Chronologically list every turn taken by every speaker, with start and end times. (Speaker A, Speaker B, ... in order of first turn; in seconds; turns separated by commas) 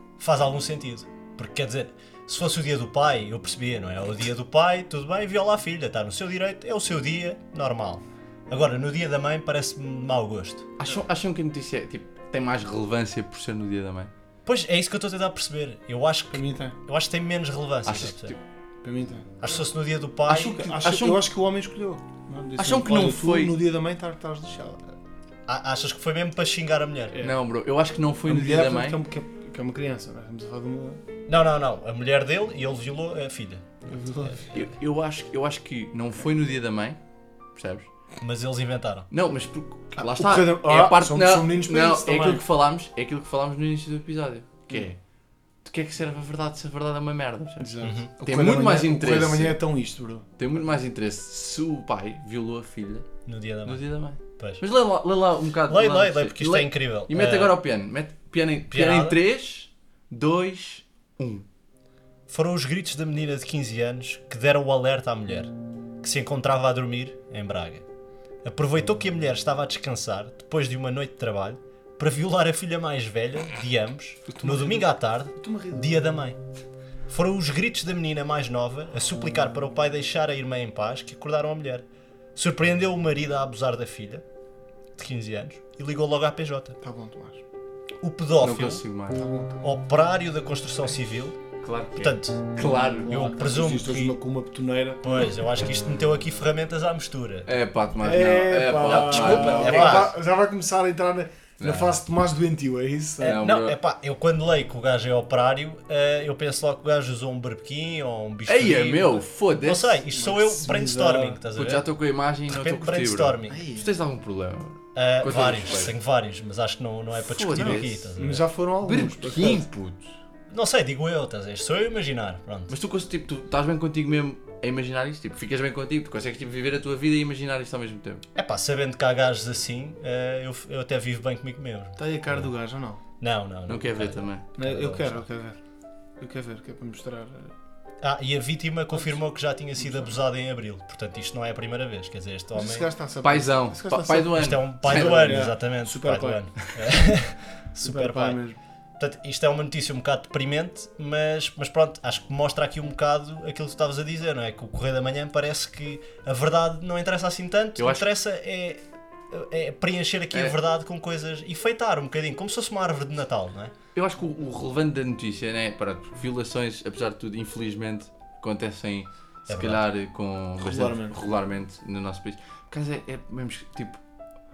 Speaker A: 0.2-10.7, Speaker B: 10.8-14.1, Speaker A: 14.4-18.3, Speaker C: 16.3-16.8, Speaker B: 17.9-18.4, Speaker C: 18.8-19.5, Speaker A: 19.4-20.6, Speaker B: 20.3-21.2, Speaker C: 20.3-25.0, Speaker B: 22.6-23.5, Speaker A: 25.5-27.2, Speaker B: 27.2-29.0, Speaker C: 28.2-31.0, Speaker A: 31.3-33.6, Speaker C: 33.9-34.5, Speaker B: 34.5-37.0, Speaker B: 37.5-37.9, Speaker A: 38.2-39.1, Speaker B: 39.1-45.0, Speaker C: 40.0-42.4, Speaker B: 45.6-49.6, Speaker C: 47.6-50.2, Speaker A: 47.8-48.1, Speaker B: 50.4-53.1, Speaker A: 53.2-54.6, Speaker B: 53.6-61.5, Speaker A: 55.7-57.5, Speaker A: 58.7-59.2, Speaker A: 62.3-67.8, Speaker A: 68.4-76.4, Speaker C: 74.3-76.0, Speaker A: 77.1-84.2, Speaker A: 85.0-86.8, Speaker C: 86.8-87.4, Speaker A: 88.0-88.8, Speaker B: 88.4-89.2, Speaker C: 89.1-89.6, Speaker A: 89.6-91.4, Speaker B: 91.6-93.1, Speaker A: 92.0-92.4, Speaker C: 93.0-95.3, Speaker A: 93.1-94.2, Speaker A: 95.0-97.5, Speaker B: 97.5-100.1, Speaker C: 98.0-103.4, Speaker A: 98.8-100.1, Speaker B: 101.6-102.0, Speaker A: 103.2-111.9, Speaker B: 103.2-103.8, Speaker B: 108.5-109.9, Speaker C: 110.1-111.4, Speaker B: 111.5-115.9, Speaker A: 112.5-113.6, Speaker C: 113.5-113.9, Speaker A: 114.9-118.5, Speaker B: 117.2-118.1, Speaker C: 117.6-119.7, Speaker B: 118.8-120.1, Speaker A: 120.5-122.7, Speaker B: 122.7-128.2, Speaker A: 128.3-132.5, Speaker C: 132.0-133.0, Speaker A: 133.2-135.2, Speaker B: 133.7-134.4, Speaker C: 134.6-135.6, Speaker C: 136.2-137.5, Speaker A: 138.0-142.9, Speaker C: 138.9-139.2, Speaker C: 139.8-140.2, Speaker C: 142.5-146.4, Speaker B: 143.2-145.5, Speaker A: 144.3-148.4, Speaker C: 147.8-148.6, Speaker A: 149.0-163.7, Speaker B: 157.8-158.1, Speaker B: 163.9-174.0, Speaker A: 169.5-169.8, Speaker C: 170.6-171.2